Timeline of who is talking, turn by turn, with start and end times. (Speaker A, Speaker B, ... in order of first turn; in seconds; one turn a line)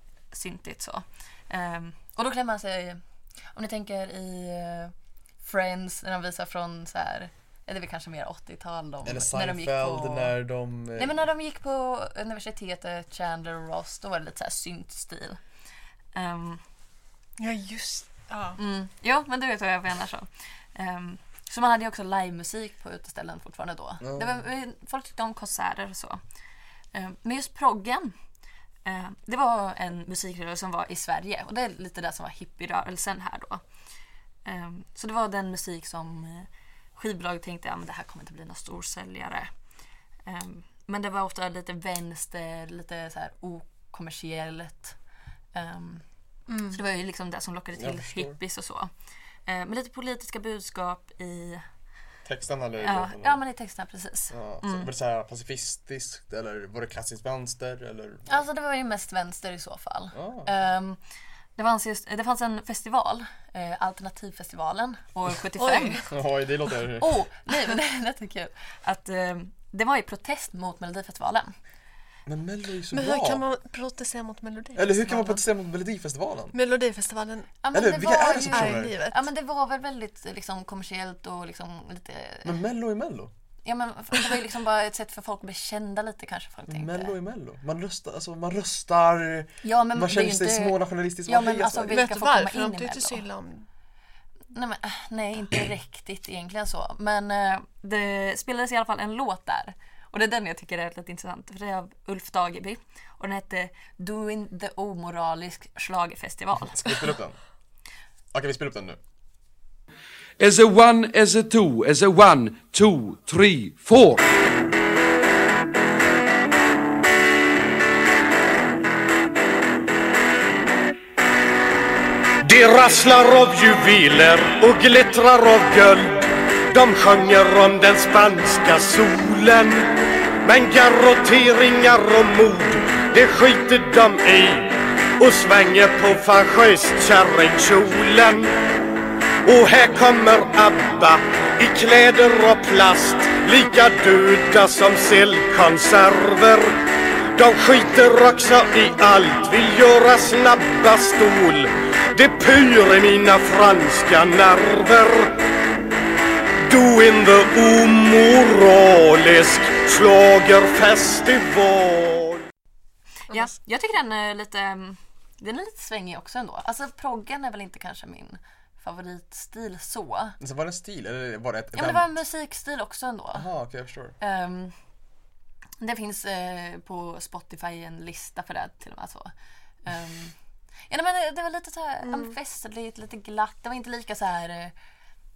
Speaker A: 0.3-3.0
Speaker A: 3.5-10.3
Speaker B: 9.1-11.2
Speaker A: 11.0-15.4
Speaker A: 16.1-16.6
Speaker C: 17.4-18.6
Speaker A: 18.6-26.2
Speaker B: 24.0-24.3
Speaker A: 26.9-28.1
Speaker A: 28.9-33.6
Speaker A: 34.5-39.5
Speaker A: 40.3-45.0
Speaker A: 45.5-46.0
Speaker C: 46.5-46.8
Speaker A: 46.7-48.9
Speaker B: 47.8-48.4
Speaker A: 49.5-51.6
Speaker B: 52.3-53.4
Speaker A: 52.8-54.9
Speaker B: 54.3-58.4
Speaker A: 58.3-61.0
Speaker B: 60.1-60.5
Speaker A: 61.6-66.1
Speaker C: 65.6-66.0
Speaker B: 66.1-67.2
Speaker A: 67.0-71.5
Speaker B: 72.3-73.4
Speaker C: 72.9-75.4
Speaker B: 74.8-76.6
Speaker C: 76.5-77.5
Speaker A: 77.6-82.6
Speaker B: 77.7-78.9
Speaker C: 78.5-79.3
Speaker B: 82.5-83.3
Speaker A: 83.7-87.2
Speaker B: 86.7-92.1
Speaker A: 89.6-93.2
Speaker C: 91.9-93.7
Speaker A: 94.5-106.9
Speaker B: 106.7-107.4
Speaker B: 108.3-109.0
Speaker D: 110.4-114.2
Speaker E: 122.4-138.6
Speaker E: 139.4-146.8
Speaker E: 147.3-155.4
Speaker E: 156.7-162.5
Speaker A: 163.3-170.4
Speaker B: 170.4-172.2
Speaker A: 171.8-173.5
Speaker B: 173.3-174.2
Speaker A: 174.2-174.7
Speaker A: 175.8-179.3
Speaker A: 179.9-180.3
Speaker A: 180.9-184.7